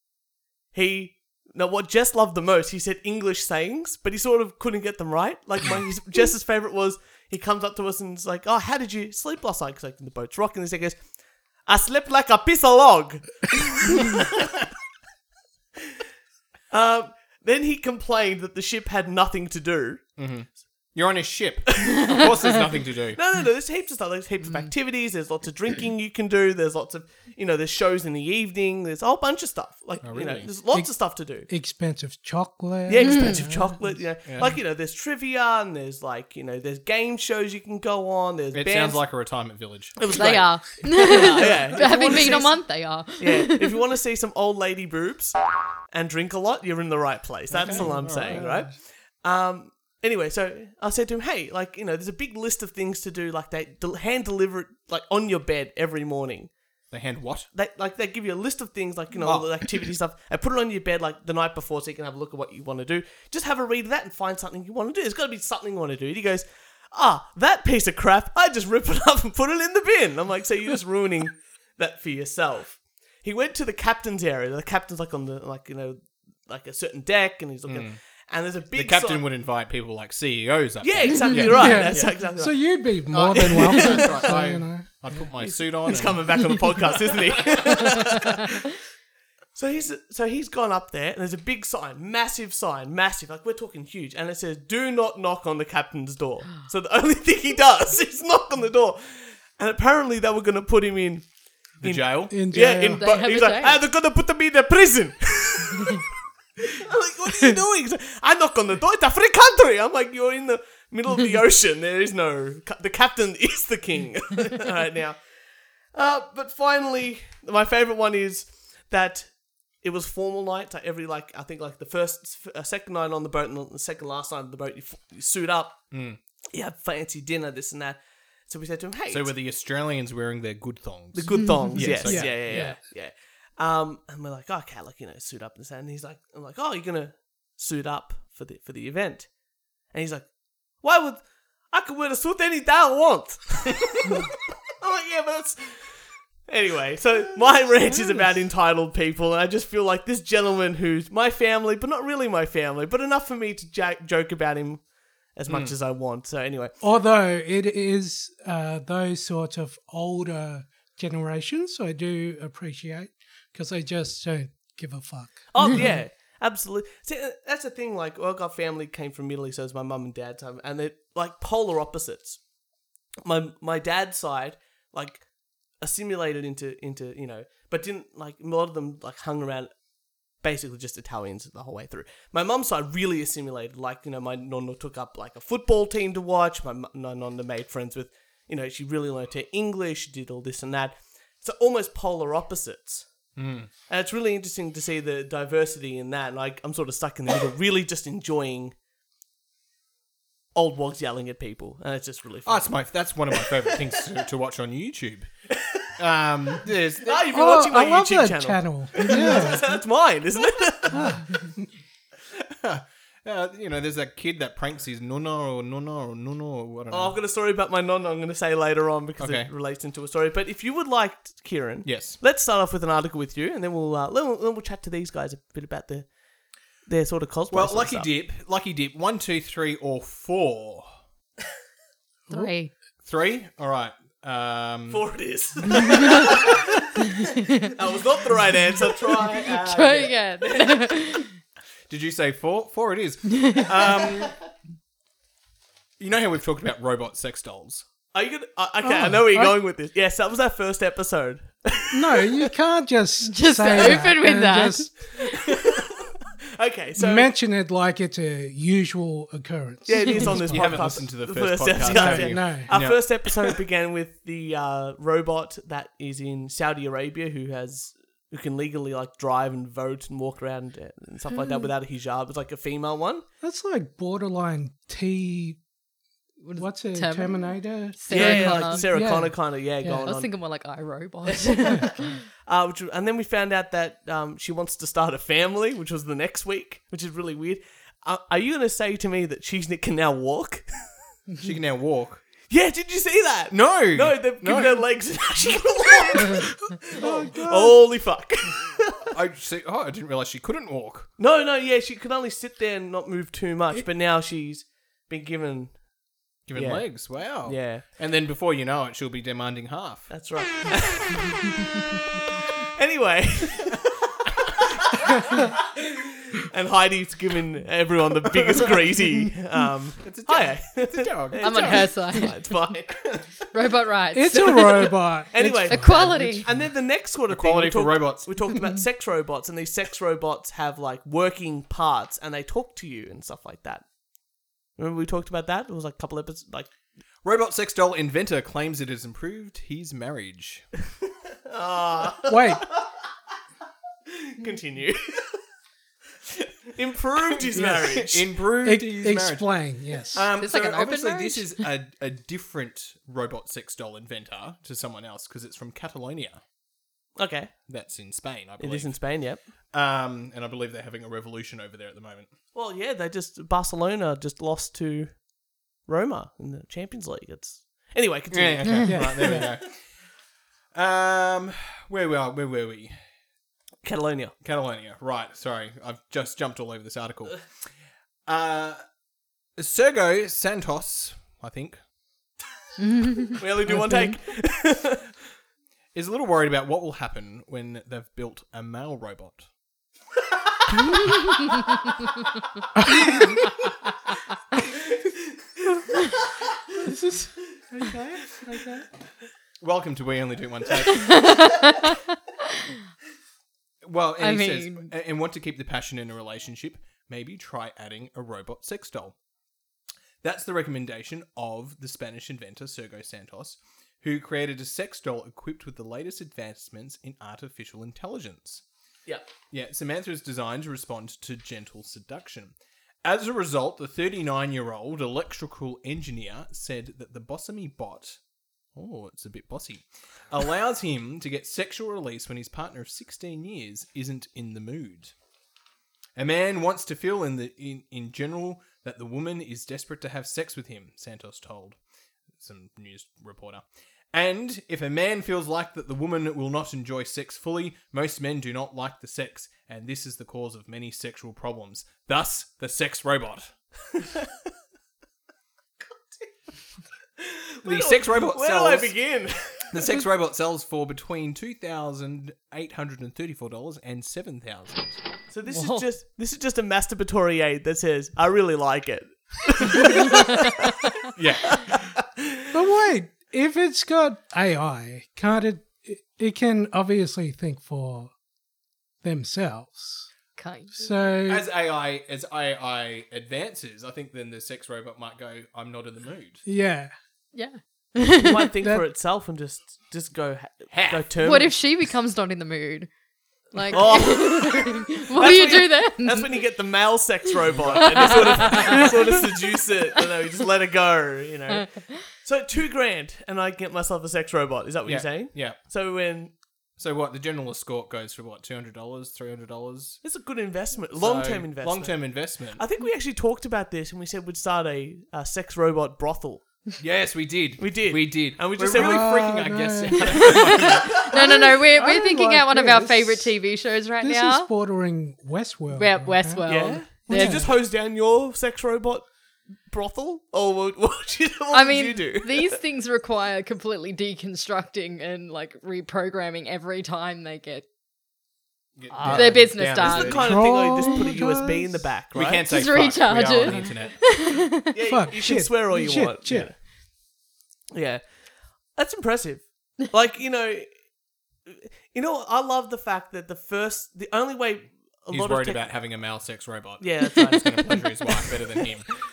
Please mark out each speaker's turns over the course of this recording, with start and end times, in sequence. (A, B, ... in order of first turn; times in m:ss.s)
0:00.7-0:11.0 A
0:11.6-0:14.3 A
0:16.7-0:20.0 A
0:20.2-0:23.2 B
0:21.8-0:22.3 A
0:23.1-0:31.5 A
0:30.0-0:30.5 B
0:30.7-0:33.8 C
0:32.9-0:39.0 A
0:33.0-0:33.4 D
0:34.2-0:34.5 B
0:38.5-0:40.5 B
0:40.0-0:42.6 A
0:40.1-0:43.8 D
0:43.2-0:56.5 A
0:47.5-0:48.5 B
0:47.7-0:48.6 C
0:56.9-0:57.5 B
0:57.5-1:19.2 A
0:59.2-0:59.5 B
1:17.7-1:18.0 B
1:18.7-1:22.1 B
1:20.8-1:22.8 A
1:21.4-1:25.2 C
1:23.1-1:26.5 B
1:23.3-1:24.2 A
1:25.4-1:28.6 A
1:28.0-1:28.2 D
1:29.5-1:41.3 A
1:41.8-1:42.4 B
1:41.8-1:46.0 A
1:42.3-1:43.0 C
1:43.0-1:43.8 D
1:46.6-1:55.2 A
1:55.9-2:05.8 A
2:05.9-2:06.2 B
2:06.5-2:09.3 A
2:09.1-2:12.7 B
2:11.1-2:19.3 A
2:11.8-2:12.8 C
2:19.9-2:20.3 A
2:20.8-2:36.7 A
2:35.5-2:35.7 B
2:36.8-2:45.5 C
2:45.5-2:52.4 A
2:53.2-2:55.2 A
2:55.8-2:59.7 A
3:00.4-3:13.0 A
3:13.4-3:13.7 B
3:13.9-3:18.7 A
3:20.5-3:22.7 A
3:22.4-3:25.3 B
3:23.3-3:23.7 A
3:25.5-3:25.8 A
3:26.0-3:27.2 B
3:27.0-3:31.2 A
3:27.2-3:29.8 C
3:30.9-3:31.4 C
3:32.3-3:37.2 B
3:36.9-3:46.1 A
3:39.2-3:39.5 B
3:41.8-3:42.2 B
3:46.8-3:48.1 A
3:47.5-3:50.9 B
3:52.3-3:52.5 C
3:52.3-3:52.7 D
3:53.0-3:55.1 B
3:54.9-3:56.9 A
3:55.9-3:56.3 D
3:57.2-3:57.7 D
3:57.7-4:01.0 A
3:59.2-4:01.3 D
4:01.9-4:04.4 B
4:03.3-4:03.7 D
4:06.0-4:07.8 B
4:08.1-4:12.4 A
4:08.8-4:09.6 C
4:11.9-4:14.9 C
4:13.2-4:14.9 D
4:15.2-4:17.3 A
4:17.0-4:20.6 C
4:19.9-4:33.2 A
4:19.9-4:20.4 D
4:20.4-4:23.5 B
4:21.8-4:22.7 C
4:33.4-4:35.6 C
4:36.4-4:38.9 D
4:36.6-4:40.0 C
4:38.1-4:40.3 A
4:39.8-4:42.2 D
4:41.5-4:41.8 A
4:42.4-4:51.1 A
4:51.4-4:52.2 B
4:52.5-4:58.8 A
4:53.5-4:54.8 B
4:56.8-4:57.8 C
4:59.1-5:01.1 B
5:01.2-5:05.8 A
5:06.5-5:10.1 B
5:06.5-5:07.8 A
5:10.1-5:11.6 A
5:12.3-5:13.9 A
5:15.3-5:15.8 A
5:16.3-5:23.0 A
5:20.0-5:21.9 B
5:21.4-5:22.4 D
5:23.5-5:25.0 D
5:24.1-5:26.4 C
5:25.3-5:33.8 A
5:25.7-5:26.5 D
5:27.3-5:28.3 B
5:34.8-5:36.7 A
5:37.2-5:40.6 B
5:41.5-5:43.0 A
5:42.3-5:42.7 C
5:44.1-5:45.4 A
5:46.7-5:48.2 A
5:47.5-5:56.4 B
5:48.6-5:50.2 C
5:50.4-5:51.5 D
5:57.2-5:57.5 A
5:57.7-5:59.0 B
5:58.6-5:59.4 A
5:59.7-6:02.3 B
6:02.5-6:05.2 A
6:05.8-6:09.3 A
6:08.3-6:09.8 B
6:08.9-6:09.5 C
6:10.7-6:13.0 B
6:13.8-6:14.3 A
6:14.4-6:17.4 B
6:18.2-6:18.8 B
6:19.6-6:21.8 B
6:22.8-6:24.1 D
6:23.4-6:25.1 A
6:23.7-6:24.0 C
6:25.9-6:29.5 B
6:36.8-6:38.9 C
6:39.6-6:41.2 B
6:40.8-6:42.6 D
6:43.8-6:49.1 B
6:44.2-6:44.9 D
6:50.2-6:58.6 B
6:59.5-7:08.2 B
7:08.8-7:15.1 B
7:16.2-7:21.8 B
7:22.4-7:33.5 B
7:37.2-7:39.9 A
7:37.6-7:39.0 B
7:39.7-7:45.0 B
7:45.3-7:50.7 A
7:45.5-7:45.8 D
7:50.0-7:50.6 D
7:51.1-7:51.7 B
7:51.5-7:52.3 A
7:52.5-7:58.1 C
7:59.0-8:00.1 C
8:00.4-8:00.9 D
8:00.7-8:01.4 C
8:01.3-8:06.4 B
8:06.4-8:06.9 C
8:07.3-8:08.5 D
8:08.1-8:11.5 A
8:10.7-8:11.1 B
8:11.2-8:12.9 D
8:13.5-8:16.3 D
8:13.7-8:26.3 A
8:17.5-8:18.9 B
8:17.7-8:19.3 D
8:21.5-8:21.8 D
8:24.8-8:25.6 B
8:26.8-8:30.0 B
8:30.0-8:36.4 A
8:30.9-8:32.6 B
8:36.8-8:41.3 B
8:37.6-8:39.2 A
8:38.7-8:43.3 C
8:40.0-8:44.5 D
8:44.0-8:47.5 C
8:45.7-8:47.5 D
8:46.4-8:49.1 A
8:49.7-8:52.6 A
8:51.5-8:57.6 D
8:58.8-9:00.3 B
8:58.9-9:02.5 A
8:59.1-9:00.3 D
9:00.1-9:01.9 C
9:02.1-9:04.0 B
9:02.4-9:04.7 D
9:04.7-9:06.6 A
9:04.8-9:06.5 C
9:06.2-9:06.5 B
9:07.7-9:08.2 A
9:08.7-9:10.8 A
9:11.4-9:15.6 A
9:15.1-9:18.9 B
9:16.8-9:18.2 A